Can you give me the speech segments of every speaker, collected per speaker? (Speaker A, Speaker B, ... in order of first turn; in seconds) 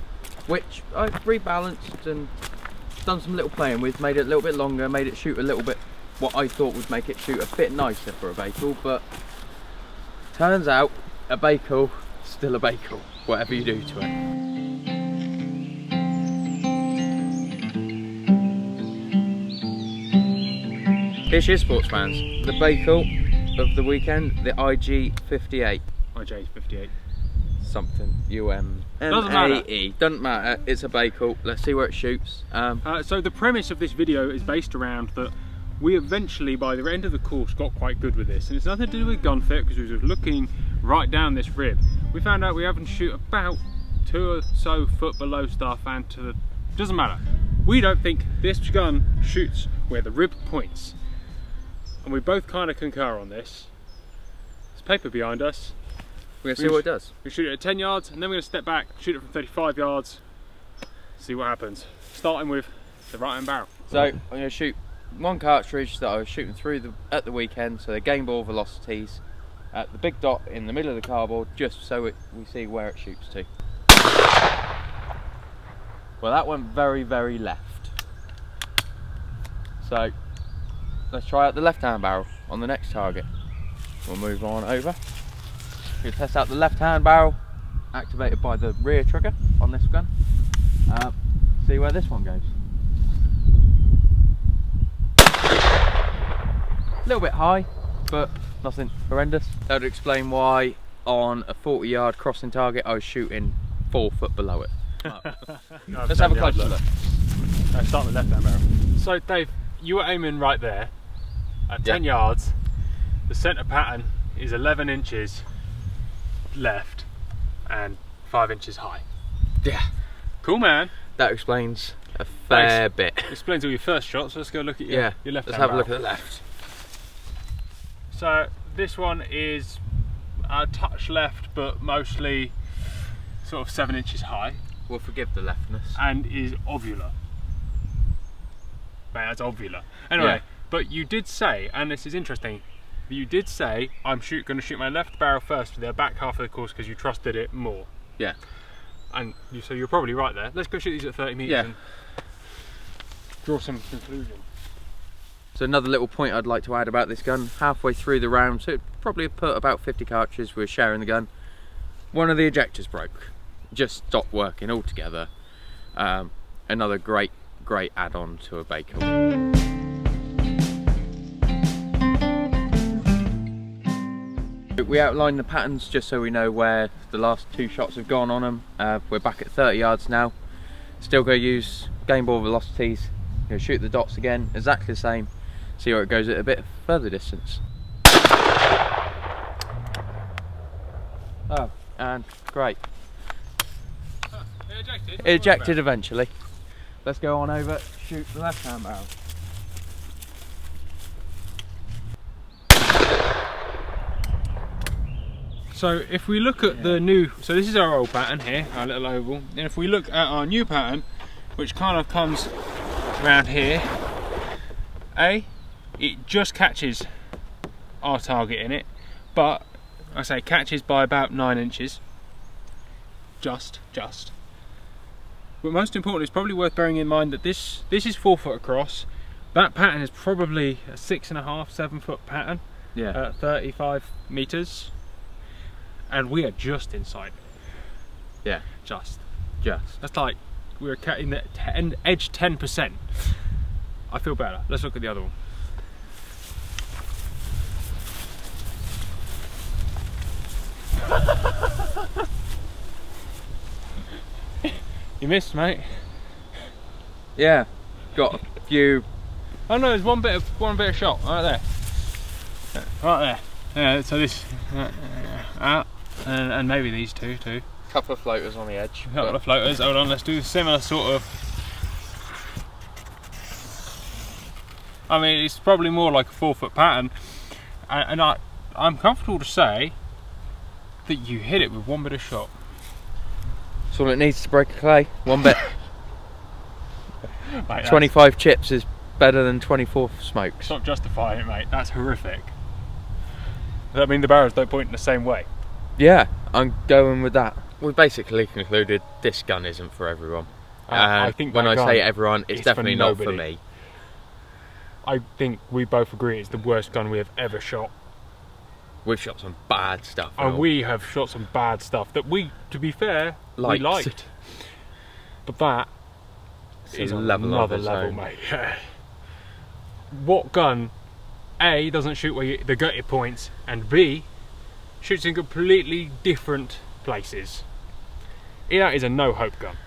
Speaker A: 0.5-2.3, 3.0-9.1, 10.3-14.1, 21.3-25.8, 27.6-32.8, 56.4-57.1, 63.9-73.5, 76.2-77.9, 79.8-80.1, 81.1-83.3, 84.0-85.0, 86.0-87.4, 87.9-90.1, 90.9-92.5, 97.0-105.5, 106.1-106.9, 119.6-119.9, 121.2-123.4, 124.9-126.4, 134.9-136.0, 140.2-140.4, 151.5-151.7, 155.6-161.3, 162.1-165.3, 165.9-169.1, 174.8-180.3, 181.0-187.6, 191.5-192.8, 195.2-196.3, 197.0-199.1, 206.7-207.0, 232.9-233.2, 238.4-238.8, 239.6-240.0, 257.4-259.1, 267.9-269.4, 283.9-285.8, 287.8-290.7, 296.0-303.6, 309.0-310.7, 313.6-314.2, 316.9-318.2
Speaker B: 26.1-26.9, 29.1-29.7, 32.8-51.0, 52.0-53.7, 54.8-55.8, 56.6-60.2, 61.2-64.1, 105.1-106.8, 107.7-110.9, 111.7-112.6, 113.3-115.5, 116.5-117.1, 117.7-119.0, 120.4-120.9, 122.5-125.9, 128.1-129.8, 130.4-134.6, 135.9-137.1, 139.1-147.9, 149.1-151.8, 153.4-154.4, 194.3-195.8, 205.7-214.2, 215.1-217.4, 218.0-222.0, 223.4-224.3, 225.6-234.9, 236.1-237.4, 238.8-243.5, 244.1-245.3, 255.2-256.2, 259.7-261.8, 262.8-267.6, 269.1-271.3, 275.1-279.9, 281.1-282.5, 287.6-288.1, 290.6-292.5, 293.9-295.5, 300.9-303.5, 305.0-307.9, 310.4-314.9, 315.4-316.0, 316.9-319.2, 320.1-327.8, 328.7-329.8